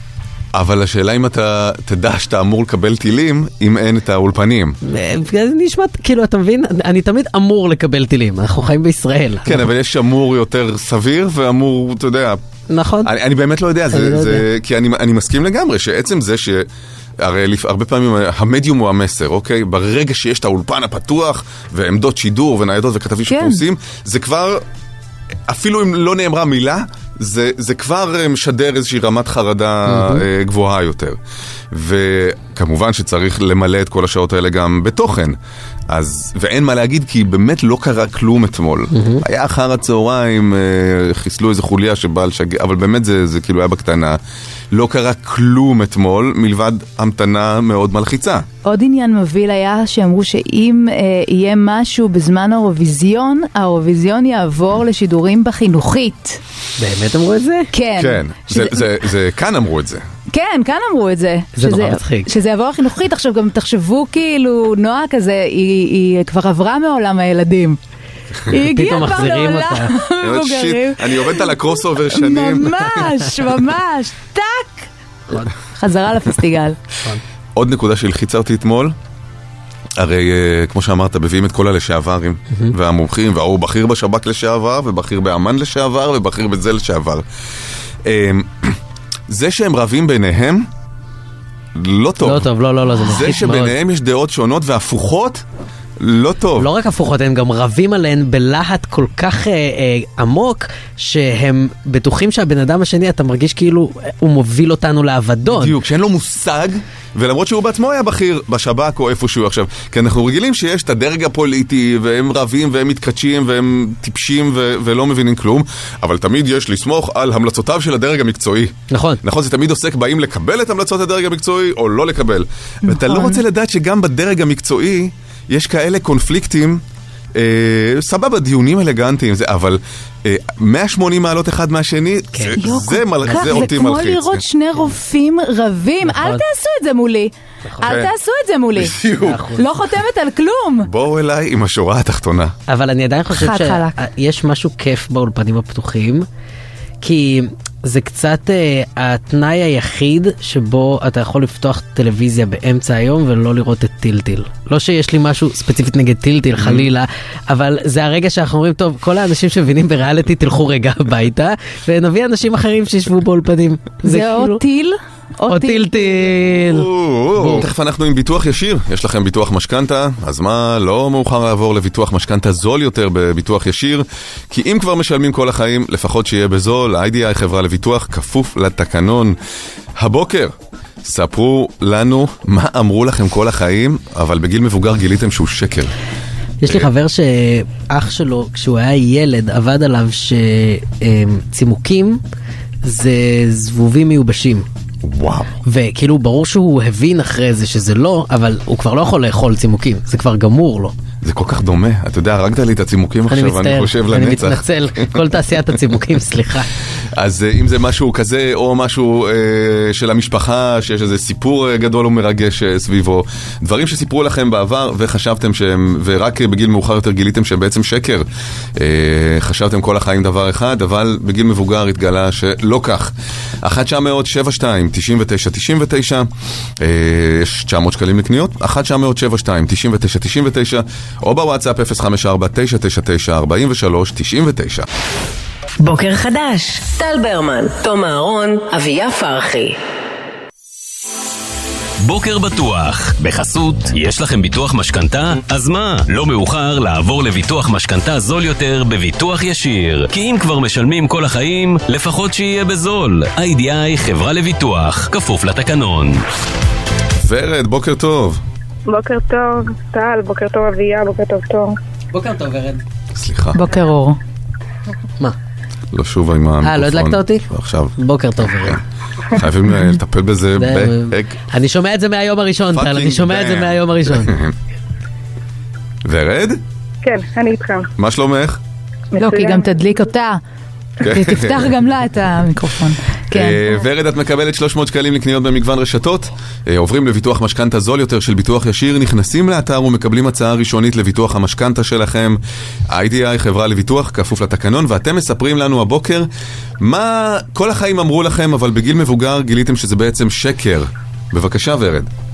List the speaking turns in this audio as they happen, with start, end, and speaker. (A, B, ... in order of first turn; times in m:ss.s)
0:00.5-0:04.8 A
0:04.8-0:09.6 B
0:09.4-0:12.4 A
0:12.7-0:13.1 B
0:13.0-0:16.7 A
0:13.9-0:14.4 B
0:17.2-0:24.6 A
0:23.3-0:23.6 C
0:25.5-0:31.2 A
0:29.9-0:30.2 B
0:31.7-0:35.4 A
0:35.9-0:44.2 A
0:38.9-0:39.2 B
0:44.7-0:48.4 A
0:48.6-0:56.4 C
0:56.8-0:57.7 B
0:57.7-0:58.9 C
0:58.0-1:00.0 A
1:00.3-1:07.8 C
1:01.6-1:02.3 B
1:08.4-1:14.9 C
1:08.5-1:09.9 B
1:10.2-1:13.1 A
1:15.7-1:16.8 C
1:17.6-1:19.0 A
1:20.0-1:27.2 A
1:28.0-1:30.7 A
1:31.7-1:35.4 A
1:32.2-1:33.7 B
1:36.0-1:36.7 A
1:36.6-1:45.8 B
1:45.5-2:06.8 A
1:58.9-1:59.2 B
2:02.8-2:03.4 C
2:07.3-2:14.4 A
2:12.3-2:12.6 B
2:12.6-2:19.0 C
2:13.2-2:13.7 B
2:16.0-2:16.4 B
2:17.8-2:18.1 A
2:18.7-2:19.4 A
2:19.2-2:19.7 B
2:19.6-2:20.9 C
2:20.8-2:22.5 A
2:22.7-2:26.2 B
2:23.3-2:24.0 C
2:27.0-2:44.6 B
2:36.6-2:36.9 A
2:44.0-2:46.3 C
2:45.5-2:47.7 B
2:46.6-2:59.4 A
3:00.0-3:05.9 A
3:06.6-3:12.2 B
3:12.8-3:14.6 B
3:15.0-3:15.5 A
3:15.6-3:20.9 B
3:21.2-3:25.2 A
3:23.3-3:26.7 B
3:27.2-3:38.2 A
3:38.8-3:54.8 A
3:55.8-3:59.8 D
4:02.0-4:16.2 E
4:17.2-4:18.4 A
4:18.9-4:21.8 F
4:22.1-4:22.8 B
4:23.1-4:23.6 A
4:23.5-4:24.2 C
4:25.9-4:27.9 A
4:26.6-4:28.8 B
4:28.6-4:31.4 A
4:30.6-4:34.4 B
4:32.7-4:34.5 A
4:36.0-4:36.6 A
4:37.0-4:37.9 F
4:38.0-4:38.6 A
4:39.1-4:39.8 F
4:39.2-4:40.4 C
4:41.0-4:41.8 A
4:41.0-4:43.7 C
4:43.3-4:56.3 A
4:56.8-5:02.1 A